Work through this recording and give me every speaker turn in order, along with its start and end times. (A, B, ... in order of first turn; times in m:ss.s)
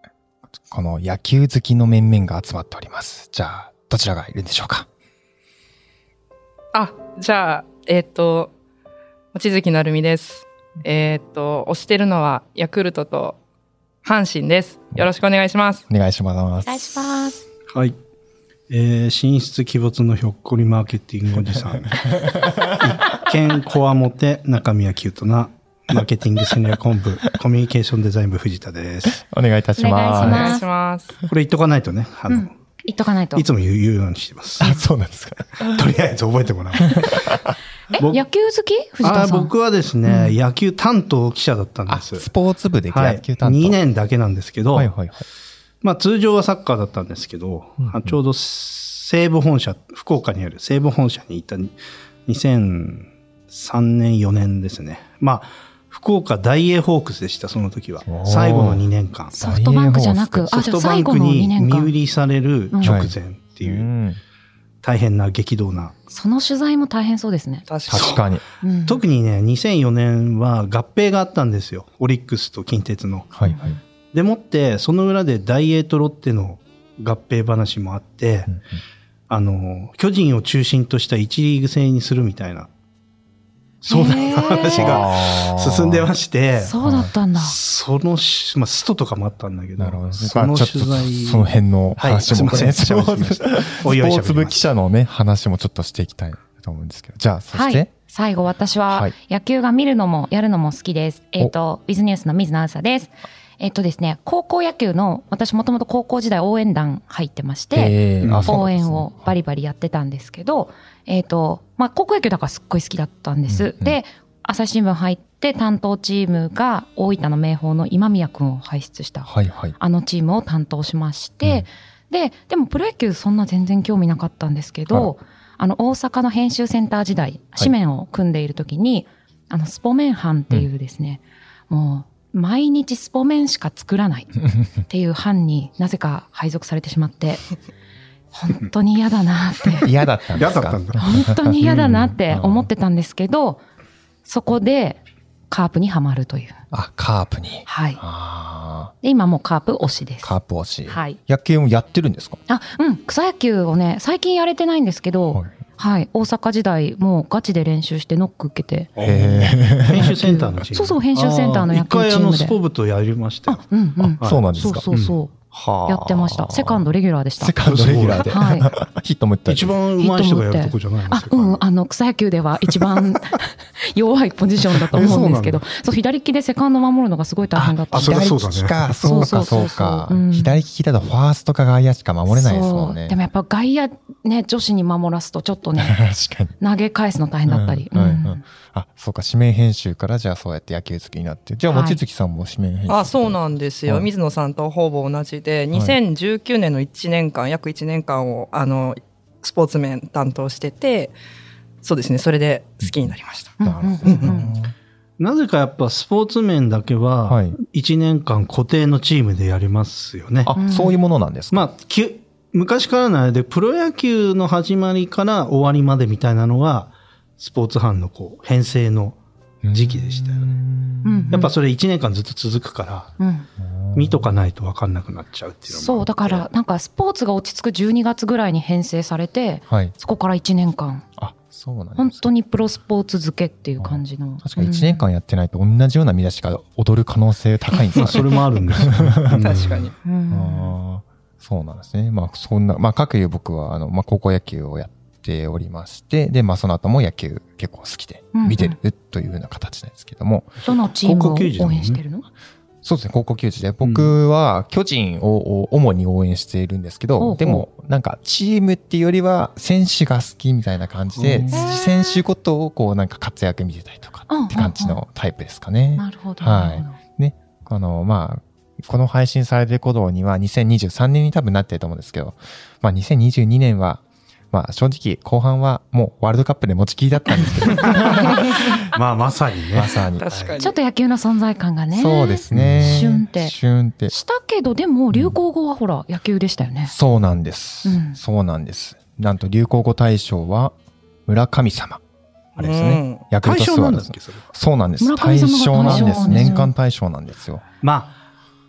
0:00.7-0:04.9 A
0:06.7-0:08.5 B
0:09.3-0:13.4 B
0:14.0-0:15.8 B
0:15.9-0:16.9 A
0:16.6-0:17.4 C
0:18.7-0:22.1 D
0:21.5-0:23.0 A
0:22.8-0:29.2 D
0:29.1-0:30.6 A
0:29.8-0:30.7 C
0:30.2-0:31.1 B
0:31.3-0:32.5 D
0:32.3-0:33.4 C
0:33.4-0:34.7 D
0:34.6-0:35.8 A
0:35.6-0:37.3 D
0:36.9-0:37.6 A
0:37.9-0:39.5 C
0:39.0-0:42.3 D
0:40.0-0:40.4 C
0:41.9-0:43.8 A
0:42.9-0:44.9 D
0:44.7-0:45.3 A
0:45.8-0:51.8 D
0:47.8-0:48.2 A
0:52.3-0:59.4 D
0:58.1-1:00.5 A
0:59.3-1:01.9 C
1:00.5-1:03.9 D
1:02.7-1:03.0 C
1:02.8-1:04.2 A
1:04.8-1:06.0 D
1:06.1-1:07.7 C
1:07.7-1:08.2 B
1:07.9-1:08.4 A
1:07.9-1:13.3 D
1:08.6-1:09.0 C
1:13.3-1:13.8 A
1:13.4-1:13.8 C
1:14.1-1:18.5 D
1:18.5-1:18.8 A
1:19.3-1:22.7 D
1:23.8-1:26.8 D
1:23.9-1:25.0 C
1:24.5-1:26.1 A
1:26.6-1:27.6 C
1:26.8-1:27.1 A
1:27.4-1:34.6 D
1:29.8-1:37.9 A
1:37.5-2:17.5 C
1:47.7-1:49.3 A
1:48.2-1:48.6 D
1:53.5-1:54.0 A
1:59.3-1:59.8 A
2:18.3-2:19.9 C
2:19.8-2:22.7 A
2:20.4-2:21.1 D
2:21.0-2:23.6 C
2:24.2-2:26.6 C
2:26.7-2:28.9 A
2:27.7-2:28.0 C
2:29.0-2:30.3 C
2:30.2-2:32.4 A
2:30.9-2:31.2 C
2:32.5-2:38.9 C
2:39.0-2:43.7 D
2:39.0-2:40.2 A
2:40.0-2:42.6 C
2:43.5-2:47.6 C
2:44.0-2:44.9 A
2:44.2-2:45.2 D
2:45.5-2:46.9 A
2:47.4-2:49.8 A
2:47.6-2:48.3 D
2:48.2-2:48.7 C
2:49.5-2:51.6 D
2:50.0-2:58.3 C
2:54.9-2:55.6 D
2:57.6-3:03.2 A
2:57.9-2:58.8 D
2:59.0-3:00.6 C
3:02.3-3:06.0 C
3:05.8-3:06.5 A
3:06.6-3:08.4 C
3:07.5-3:14.1 A
3:11.7-3:12.0 C
3:12.9-3:21.1 B
3:21.8-3:24.3 B
3:23.6-3:24.7 A
3:23.6-3:24.6 C
3:25.2-3:30.6 D
3:27.3-3:27.6 A
3:30.4-3:31.7 A
3:30.6-3:31.0 C
3:31.5-3:39.2 D
3:39.6-3:41.5 A
3:39.7-3:40.6 D
3:41.0-3:41.5 C
3:41.3-3:43.1 D
3:43.2-3:43.5 C
3:43.6-3:44.3 A
3:44.0-3:46.5 D
3:45.7-3:51.0 C
3:49.7-3:49.9 A
3:51.2-3:52.3 A
3:52.0-3:55.0 C
3:53.8-3:59.6 A
3:58.0-3:59.9 D
3:59.4-4:00.0 B
4:00.0-4:00.8 C
4:00.3-4:10.6 A
4:08.3-4:08.8 C
4:10.6-4:12.3 C
4:11.0-4:12.0 D
4:12.8-4:38.8 A
4:13.8-4:14.1 D
4:17.2-4:17.7 C
4:21.2-4:21.6 D
4:21.5-4:22.2 B
4:24.3-4:25.0 C
4:26.0-4:27.0 C
4:37.4-4:38.4 C
4:37.8-4:40.6 D
4:39.7-4:40.3 A
4:40.2-4:40.8 B
4:40.6-4:43.5 C
4:41.9-4:44.1 A
4:42.5-4:43.1 D
4:44.1-4:46.9 C
4:46.9-4:50.8 A
4:47.8-4:48.2 C
4:51.3-4:52.0 A
4:52.6-4:53.2 B
4:52.6-4:57.6 A
4:53.4-4:54.5 D
4:55.0-4:56.7 C
4:55.8-4:56.6 D
4:57.8-4:58.2 D